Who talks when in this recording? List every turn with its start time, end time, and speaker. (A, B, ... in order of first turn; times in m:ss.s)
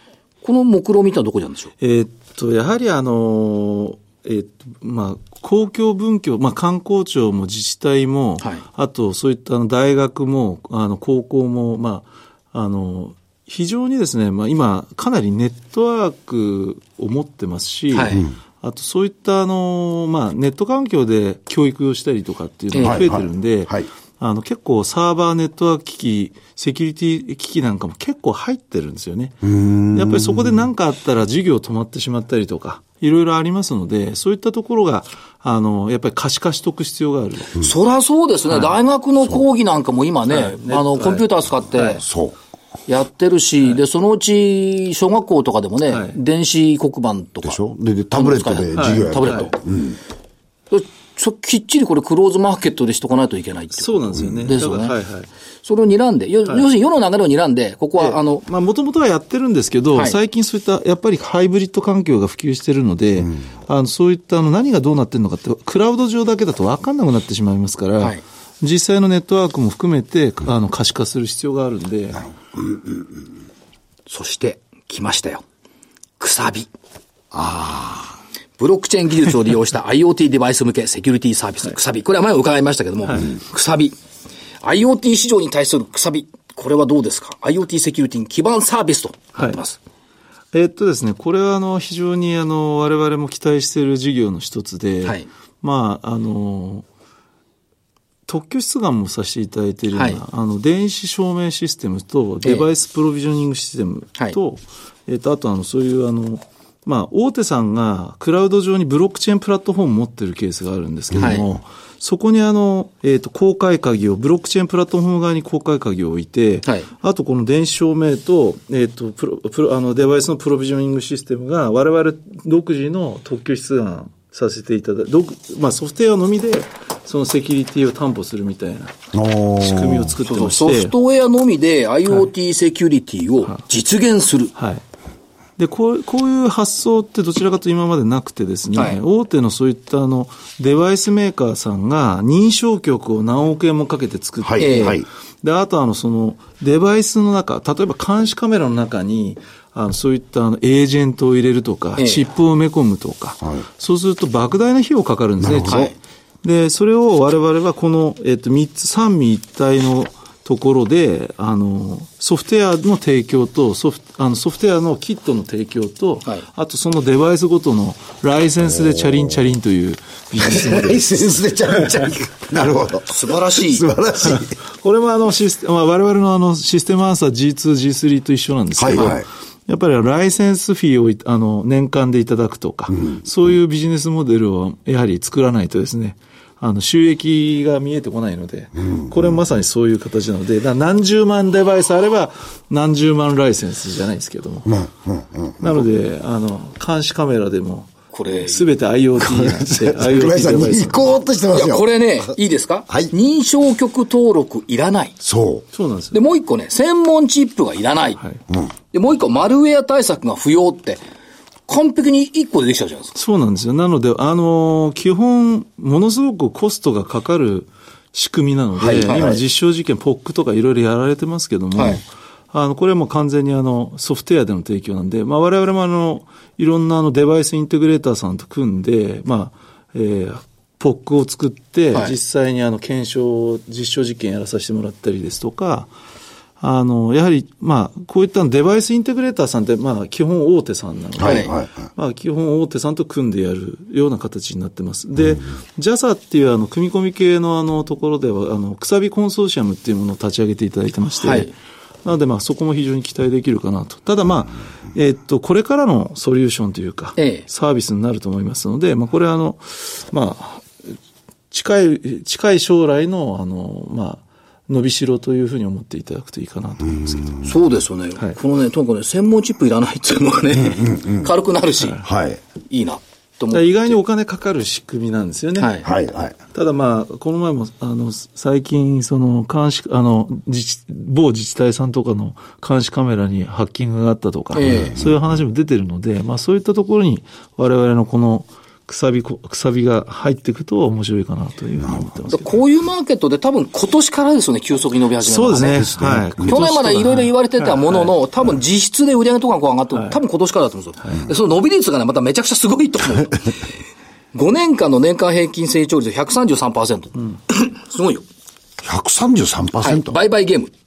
0:00.4-0:01.7 A
0:01.8-0:37.6 B
0:17.9-0:18.2 A
0:22.7-0:23.0 A
0:22.8-0:23.9 C
0:29.4-0:30.5 C
0:37.6-0:42.0 A
0:40.3-0:41.2 B
0:41.8-0:42.4 C
0:42.9-0:47.6 A
0:45.9-0:46.2 B
0:47.4-0:50.0 C
0:48.1-0:49.5 A
0:48.7-0:49.5 B
0:50.7-0:54.9 A
0:53.8-0:55.3 B
0:55.6-0:58.4 A
0:58.0-1:12.2 B
1:14.1-1:15.4 A
1:16.2-1:16.7 A
1:17.3-1:18.1 C
1:18.6-1:24.0 A
1:24.6-1:29.8 A
1:30.5-1:36.8 B
1:38.3-2:09.0 B
1:39.9-1:40.2 A
1:51.2-1:51.4 A
2:09.1-2:10.1 C
2:09.6-2:10.9 B
2:10.2-2:14.5 A
2:14.6-2:14.8 B
2:15.6-2:51.1 B
2:24.4-2:25.0 C
2:24.6-2:25.0 A
2:32.0-2:32.2 A
2:35.4-2:35.9 C
2:35.7-2:36.0 A
2:50.4-2:54.6 C
2:53.1-2:53.8 A
2:54.2-3:14.8 B
2:58.8-2:59.3 C
3:02.9-3:03.2 C
3:14.7-3:15.6 C
3:15.6-3:21.2 B
3:18.1-3:18.6 A
3:19.2-3:21.8 C
3:21.5-3:25.1 A
3:25.2-3:25.6 C
3:25.7-3:26.2 B
3:26.1-3:28.2 A
3:28.9-3:31.0 A
3:31.7-3:33.1 A
3:33.1-3:55.9 B
3:38.8-3:39.4 C
3:39.0-3:39.4 A
3:41.7-3:42.0 A
3:56.6-4:11.5 B
4:01.2-4:01.7 C
4:01.2-4:01.5 A
4:11.2-4:11.5 A
4:12.0-4:20.7 B
4:17.2-4:17.4 A
4:21.5-4:27.4 B
4:27.4-4:32.0 A
4:30.8-4:31.3 C
4:32.0-4:32.4 C
4:32.6-4:34.0 A
4:33.5-4:35.8 B
4:35.6-4:35.9 A
4:35.8-4:36.3 C
4:36.5-4:52.5 B
4:44.5-4:45.0 A
4:44.6-4:45.1 C
4:52.3-4:55.9 A
4:55.2-4:58.1 B
4:55.7-4:56.5 C
4:56.4-5:03.7 A
5:04.3-5:08.2 A
5:08.8-5:10.2 C
5:09.8-5:10.7 A